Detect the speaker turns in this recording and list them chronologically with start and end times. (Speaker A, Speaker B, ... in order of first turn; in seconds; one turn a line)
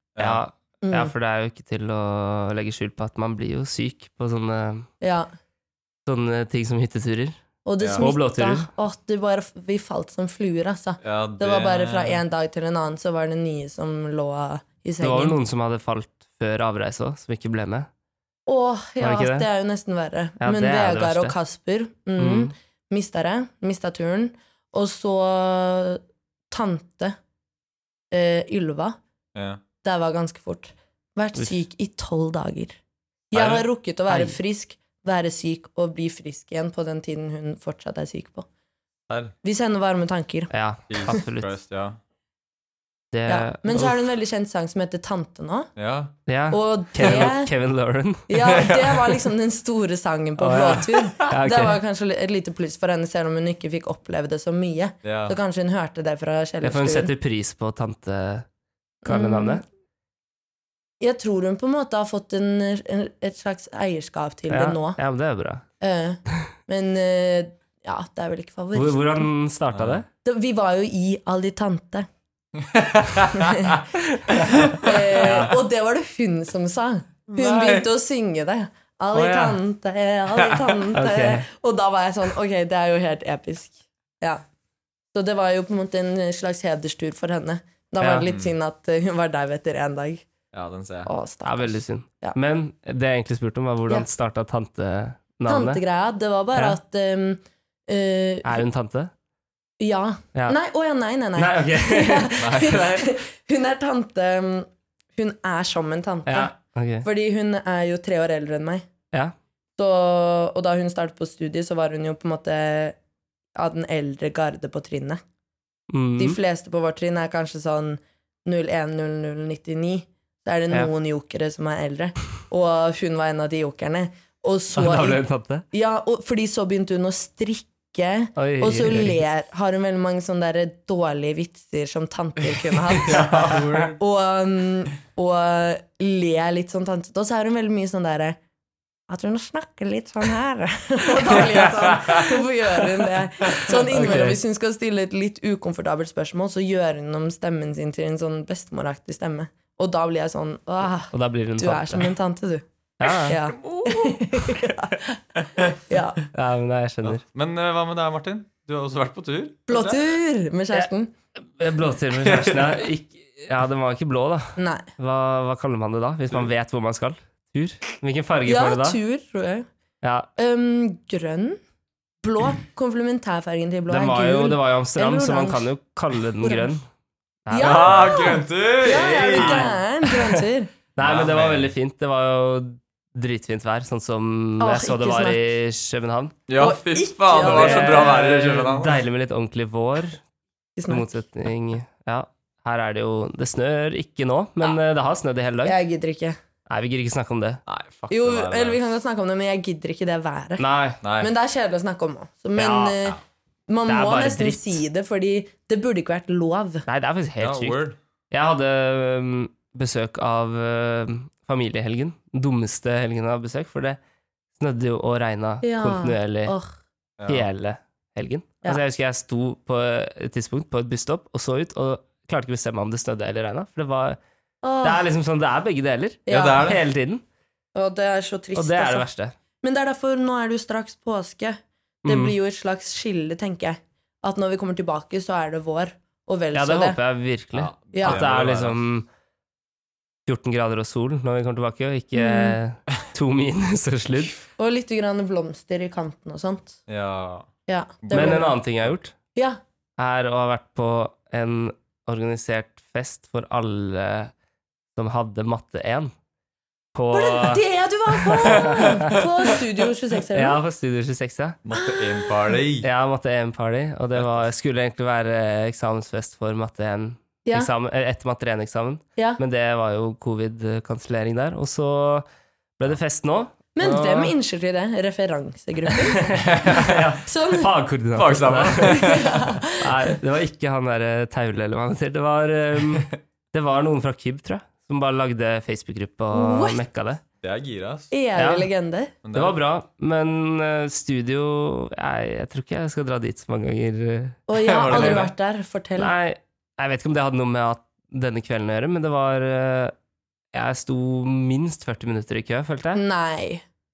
Speaker A: 0.1-0.4
Speaker B: 0.2-4.9
Speaker C: 0.8-1.1
Speaker C: 5.0-5.3
Speaker B: 6.1-7.4
Speaker C: 7.6-15.4
Speaker A: 7.8-8.1
Speaker B: 8.0-8.7
Speaker A: 11.0-12.2
Speaker B: 15.0-17.9
Speaker C: 18.4-27.1
Speaker B: 19.0-19.5
Speaker B: 20.4-21.3
Speaker B: 22.2-22.5
Speaker C: 28.1-29.0
Speaker A: 29.3-29.6
Speaker C: 29.8-32.8
Speaker C: 33.3-38.5
Speaker A: 33.3-33.6
Speaker B: 34.1-34.4
Speaker A: 39.1-39.3
Speaker C: 39.4-40.5
Speaker B: 40.5-41.5
Speaker A: 40.9-42.0
Speaker B: 43.1-44.0
Speaker C: 43.3-45.7
Speaker A: 45.8-46.1
Speaker B: 46.3-48.7
Speaker C: 46.5-47.5
Speaker C: 48.3-57.1
Speaker B: 50.4-51.8
Speaker A: 55.0-55.4
Speaker B: 56.6-58.5
Speaker C: 59.0-59.6
Speaker B: 59.1-59.6
Speaker C: 61.0-65.0
Speaker B: 64.5-65.6
Speaker C: 65.8-69.2
Speaker B: 68.7-70.1
Speaker A: 69.7-70.0
Speaker C: 70.2-72.1
Speaker A: 72.6-73.6
Speaker C: 73.4-73.8
Speaker B: 74.0-74.8
Speaker A: 74.6-75.5
Speaker C: 74.7-84.4
Speaker A: 77.3-77.9
Speaker B: 79.1-79.6
Speaker B: 80.9-81.4
Speaker C: 85.1-90.2
Speaker B: 88.0-88.3
Speaker A: 88.3-88.5
Speaker A: 90.5-91.1
Speaker C: 91.1-92.4
Speaker B: 91.4-95.8
Speaker C: 95.5-98.6
Speaker B: 98.4-99.1
Speaker C: 99.8-108.9
Speaker B: 101.4-103.0
Speaker A: 102.4-102.8
Speaker B: 106.2-107.1
Speaker C: 109.8-113.0
Speaker C: 113.6-115.2
Speaker B: 115.9-116.4
Speaker C: 116.2-138.4
Speaker B: 124.7-125.6
Speaker B: 128.4-129.2
Speaker A: 132.7-134.0
Speaker B: 133.1-133.9
Speaker C: 139.1-155.2
Speaker B: 141.3-142.2
Speaker B: 143.8-144.4
Speaker B: 151.1-152.1
Speaker B: 153.0-153.4
Speaker A: 153.4-154.6
Speaker C: 155.8-156.2
Speaker B: 156.3-157.2
Speaker A: 157.0-160.0
Speaker C: 159.7-161.1
Speaker B: 161.6-169.0
Speaker A: 162.2-162.9
Speaker C: 164.6-164.9
Speaker C: 168.5-169.7
Speaker B: 170.0-170.3
Speaker C: 170.4-171.6
Speaker C: 172.2-175.7
Speaker B: 173.9-176.8
Speaker C: 176.4-176.7
Speaker B: 177.5-178.1
Speaker C: 177.5-180.7
Speaker A: 177.6-179.8
Speaker B: 179.3-180.4
Speaker B: 181.0-186.4
Speaker A: 181.0-181.7
Speaker C: 184.6-185.4
Speaker A: 186.5-189.0
Speaker C: 186.6-188.1
Speaker B: 187.4-190.2
Speaker C: 190.8-191.2
Speaker B: 190.9-195.8
Speaker C: 195.6-196.4
Speaker B: 196.7-197.6
Speaker A: 197.7-198.9
Speaker C: 198.1-200.6
Speaker B: 200.6-201.0
Speaker A: 201.0-201.3
Speaker C: 201.2-206.9
Speaker B: 202.5-203.1
Speaker B: 203.9-204.8
Speaker B: 206.9-207.8
Speaker A: 207.4-208.0
Speaker B: 208.3-214.0
Speaker B: 214.6-216.5
Speaker C: 215.6-216.7
Speaker A: 217.2-217.5
Speaker B: 217.3-224.2
Speaker C: 224.6-225.0
Speaker B: 224.8-227.2
Speaker C: 226.3-226.6
Speaker A: 226.3-226.8
Speaker C: 227.8-229.1
Speaker B: 228.5-229.3
Speaker C: 229.6-237.0
Speaker B: 232.0-232.4
Speaker B: 236.5-239.1
Speaker A: 237.5-238.8
Speaker C: 237.9-238.2
Speaker B: 240.2-244.3
Speaker C: 242.1-242.6
Speaker C: 244.6-246.8
Speaker A: 246.9-247.5
Speaker C: 247.7-248.6
Speaker A: 248.0-248.5
Speaker B: 248.1-249.1
Speaker B: 250.0-254.3
Speaker B: 255.0-256.1
Speaker B: 256.9-257.6
Speaker C: 257.1-260.6
Speaker B: 258.2-258.8
Speaker A: 258.4-259.2
Speaker B: 260.3-261.6
Speaker A: 261.6-262.9
Speaker B: 262.8-272.2
Speaker A: 264.1-264.4
Speaker C: 267.4-267.7
Speaker B: 272.8-274.3
Speaker C: 273.8-276.4
Speaker B: 276.0-279.2
Speaker A: 276.4-277.0
Speaker C: 277.2-277.7
Speaker A: 278.1-279.5
Speaker C: 278.9-280.1
Speaker B: 279.8-287.2
Speaker C: 286.3-286.8
Speaker A: 287.4-288.1
Speaker C: 288.1-289.1
Speaker B: 288.4-288.7
Speaker A: 289.2-289.6
Speaker B: 289.3-295.3
Speaker C: 294.5-296.1
Speaker A: 294.6-295.3
Speaker B: 296.0-299.9
Speaker B: 300.5-303.0
Speaker C: 302.9-303.6